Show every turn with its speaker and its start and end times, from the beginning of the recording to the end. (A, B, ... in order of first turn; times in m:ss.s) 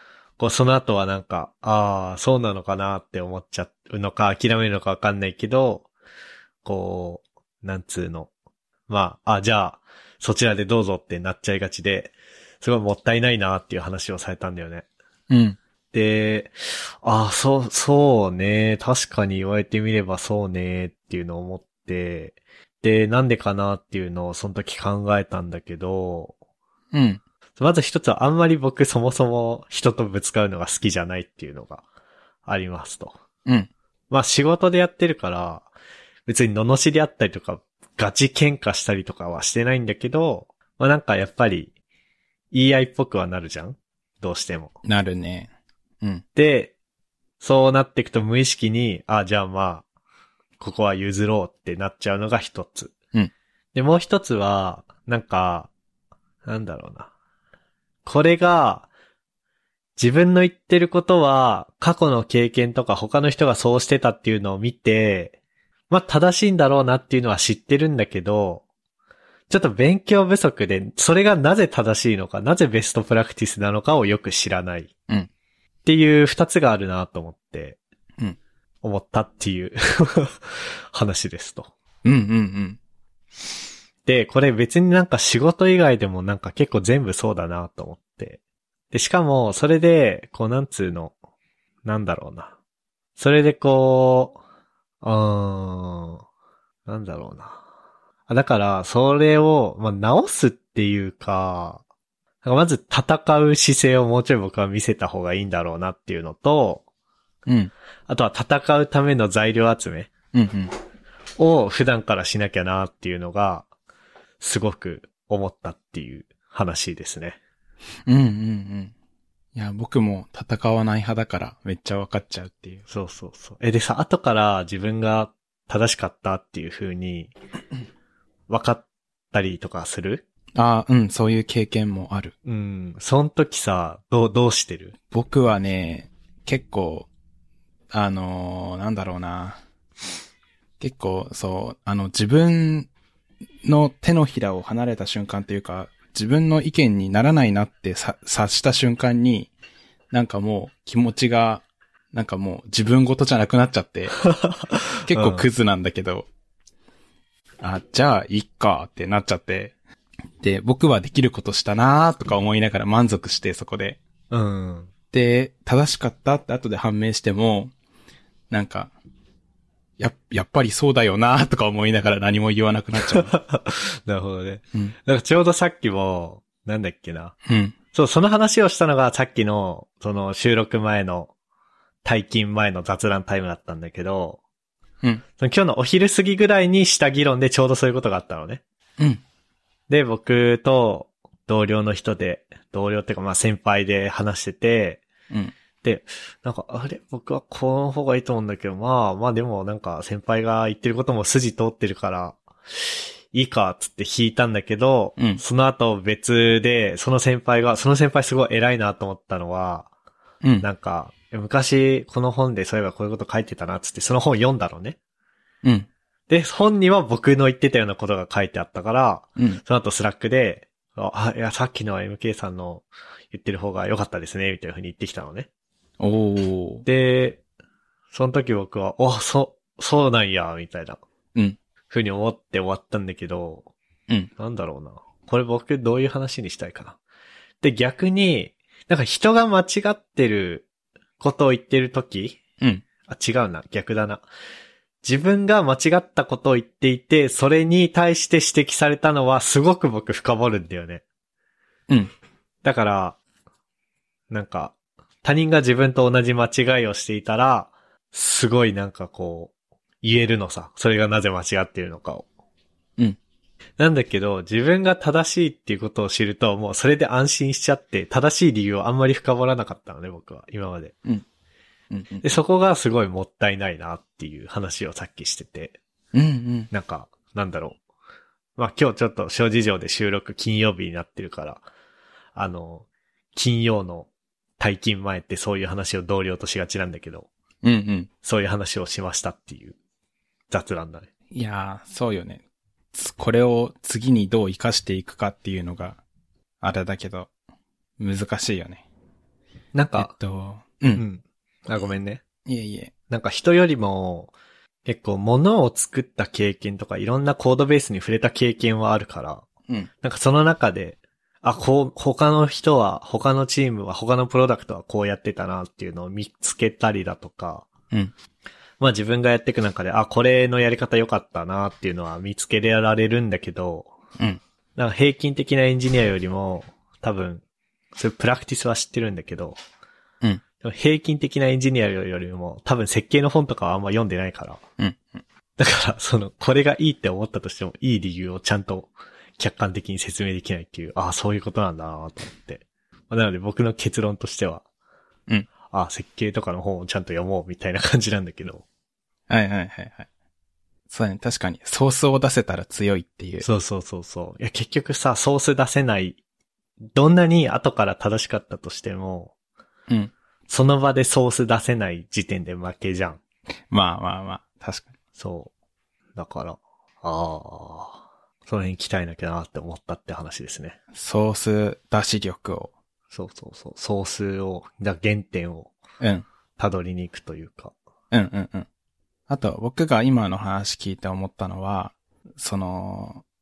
0:00.4-0:05.9 A
0:06.6-0:08.3 A
0:08.9-0:14.8 A
0:15.3-0:15.6 B
0:15.9-0:26.3 A
0:26.9-0:27.2 B
0:27.6-0:31.8 A
0:32.4-0:33.2 A
0:34.1-0:35.7 A
0:36.2-0:41.7 A
0:42.5-0:44.7 A
0:44.8-0:45.5 B
0:46.3-0:46.7 A
0:47.4-0:49.8 A
0:50.6-0:52.9 A
0:53.7-0:55.7 A
0:56.4-0:57.1 A
0:58.0-0:58.9 A
1:00.0-1:05.4 A
1:05.9-1:08.6 A
1:09.5-1:14.9 A
1:15.8-1:17.8 A
1:18.8-1:21.7 A
1:22.0-1:22.8 B
1:24.0-1:28.4 A
1:28.9-1:31.1 A
1:31.8-1:32.5 A
1:33.2-1:34.4 A
1:35.0-1:36.2 A
1:36.8-1:37.6 A
1:38.3-1:41.8 A
1:42.4-1:46.8 A
1:47.4-1:47.7 B
1:48.1-1:50.1 A
1:50.3-1:50.7 B
1:51.4-1:53.7 A
1:54.4-1:57.4 A
1:58.1-1:58.9 B
1:59.5-2:02.8 B
2:02.9-2:07.3 A
2:08.5-2:10.2 A
2:10.6-2:12.3 B
2:12.4-2:14.9 A
2:15.1-2:17.1 B
2:17.9-2:19.6 B
2:20.8-2:22.9 B
2:23.6-2:29.5 B
2:30.1-2:34.2 B
2:34.2-2:35.5 A
2:35.1-2:36.3 B
2:37.6-2:39.7 B
2:40.4-2:44.0 B
2:44.3-2:44.9 A
2:45.1-2:47.7 B
2:48.5-2:48.9 B
2:50.0-2:53.3 B
2:53.1-2:57.4 A
2:57.4-2:57.7 B
2:57.9-3:01.3 A
3:02.0-3:04.4 A
3:05.4-3:08.6 A
3:09.9-3:15.0 A
3:15.8-3:29.9 A
3:30.6-3:35.0 A
3:36.3-3:45.5 A
3:46.0-3:46.8 B
3:46.8-3:47.4 A
3:48.1-3:51.0 A
3:51.9-3:53.7 A
3:54.4-3:57.0 A
3:57.6-4:00.7 A
4:01.2-4:02.4 A
4:03.1-4:04.2 A
4:05.0-4:11.0 A
4:12.6-4:13.2 A
4:14.3-4:22.2 A
4:23.8-4:30.9 A
4:31.9-4:32.2 B
4:32.2-4:35.8 A
4:36.1-4:36.7 B
4:36.7-4:37.8 A
4:38.6-4:41.6 A
4:42.3-4:47.3 A
4:47.6-4:48.1 B
4:48.2-4:49.8 A
4:50.5-4:51.1 A
4:51.3-4:52.4 B
4:52.9-4:56.0 B
4:56.6-4:57.3 B
4:58.0-4:58.8 B
4:59.7-5:00.1 A
5:00.0-5:01.0 B
5:01.0-5:02.2 A
5:02.4-5:02.9 B
5:03.1-5:04.3 A
5:04.8-5:09.4 A
5:10.0-5:17.7 A
5:18.8-5:23.9 A
5:24.8-5:27.4 A
5:27.9-5:29.6 A
5:30.6-5:34.6 A
5:35.6-5:44.6 A
5:45.7-5:48.6 A
5:49.3-5:50.1 B
5:50.9-5:53.4 B
5:53.4-5:56.2 A
5:56.9-5:59.3 A
6:00.5-6:03.2 A
6:03.7-6:04.9 B
6:05.2-6:05.5 A
6:06.2-6:10.8 A
6:10.9-6:12.7 B
6:13.1-6:15.7 A
6:16.6-6:17.7 A
6:18.1-6:18.7 B
6:19.3-6:23.2 B